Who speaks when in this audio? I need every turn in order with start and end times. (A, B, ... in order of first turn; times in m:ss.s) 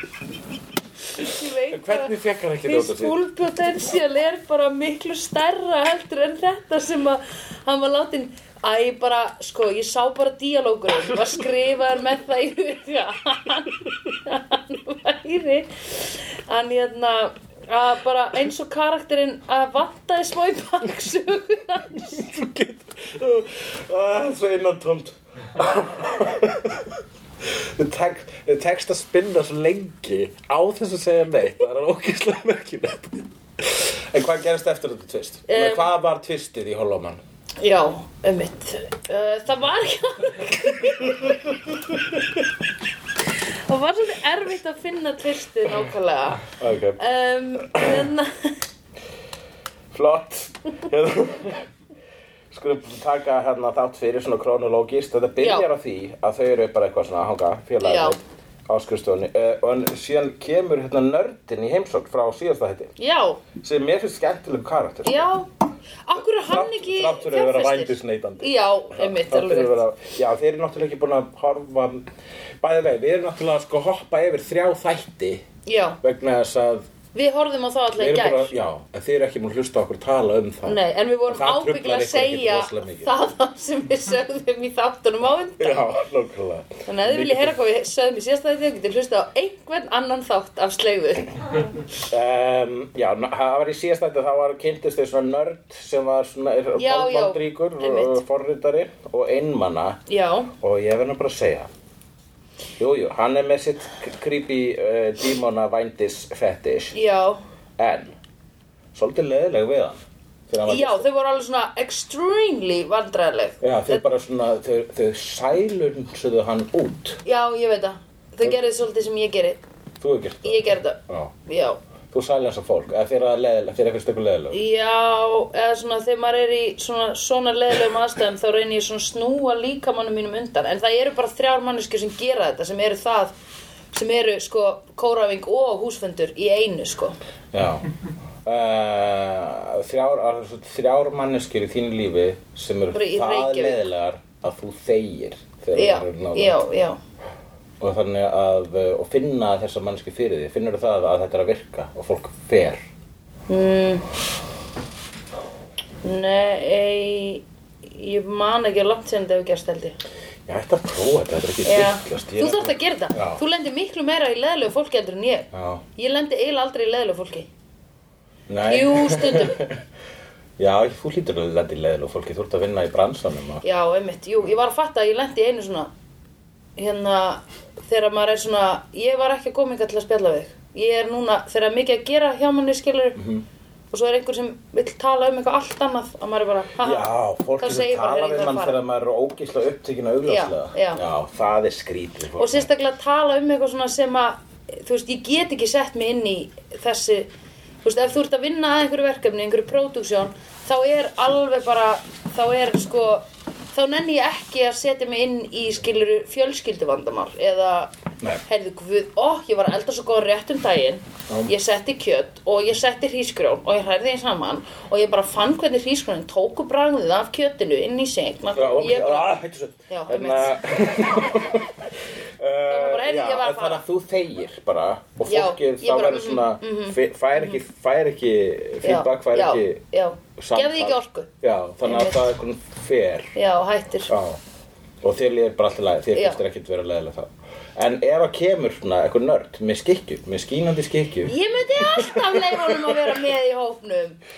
0:01.2-0:22.2 A
0:01.2-0:03.2 B
0:22.0-0:26.9 B
0:27.4-0:37.2 B
0:35.5-0:35.9 A
0:37.6-0:41.4 A
0:43.7-0:48.6 A
0:46.6-0:47.0 B
0:49.9-0:51.7 B
0:52.5-1:02.9 B
0:55.4-0:55.7 A
0:57.8-0:58.2 A
1:03.0-1:03.4 A
1:03.6-1:05.3 B
1:05.0-1:05.5 A
1:06.0-1:09.8 A
1:06.2-1:12.0 B
1:12.6-1:15.4 B
1:15.6-1:16.0 A
1:16.0-1:16.8 B
1:17.1-1:18.5 A
1:18.0-1:23.1 B
1:20.6-1:25.9 A
1:25.6-1:27.5 B
1:26.8-1:31.7 A
1:32.0-1:40.0 B
1:36.7-1:38.2 A
1:40.1-1:40.5 A
1:40.6-1:41.7 B
1:42.8-1:47.0 B
1:46.9-1:47.4 A
1:47.8-1:48.2 B
1:48.9-1:51.0 B
1:50.6-1:54.0 A
1:53.6-1:57.2 B
1:57.2-1:59.6 A
2:00.0-2:01.4 B
2:00.4-2:01.8 A
2:02.1-2:04.6 B
2:04.5-2:13.3 A
2:13.9-2:17.2 A
2:17.5-2:17.8 B
2:18.4-2:26.6 B
2:22.9-2:23.8 A
2:25.7-2:27.0 A
2:27.8-2:32.8 B
2:33.5-2:34.0 A
2:36.0-2:40.0 A
2:40.5-2:43.4 B
2:41.6-2:47.5 A
2:45.5-2:45.8 B
2:48.5-2:49.8 B
2:48.7-2:49.6 A
2:50.6-2:53.6 B
2:53.6-2:55.9 A
2:56.8-3:03.2 A
3:03.2-3:03.4 B
3:03.9-3:08.8 A
3:06.8-3:12.7 B
3:10.2-3:11.0 A
3:12.4-3:17.3 A
3:17.8-3:27.9 A
3:28.4-3:39.3 A
3:38.5-3:41.7 B
3:39.9-3:40.5 A
3:42.4-3:49.8 B
3:42.7-3:43.8 A
3:45.3-3:47.6 A
3:48.8-3:51.3 A
3:50.4-3:53.3 B
3:51.8-3:52.3 A
3:53.3-3:54.1 A
3:54.1-3:54.4 B
3:55.0-4:01.3 B
3:56.1-3:56.4 A
4:01.3-4:04.2 A
4:01.9-4:03.0 B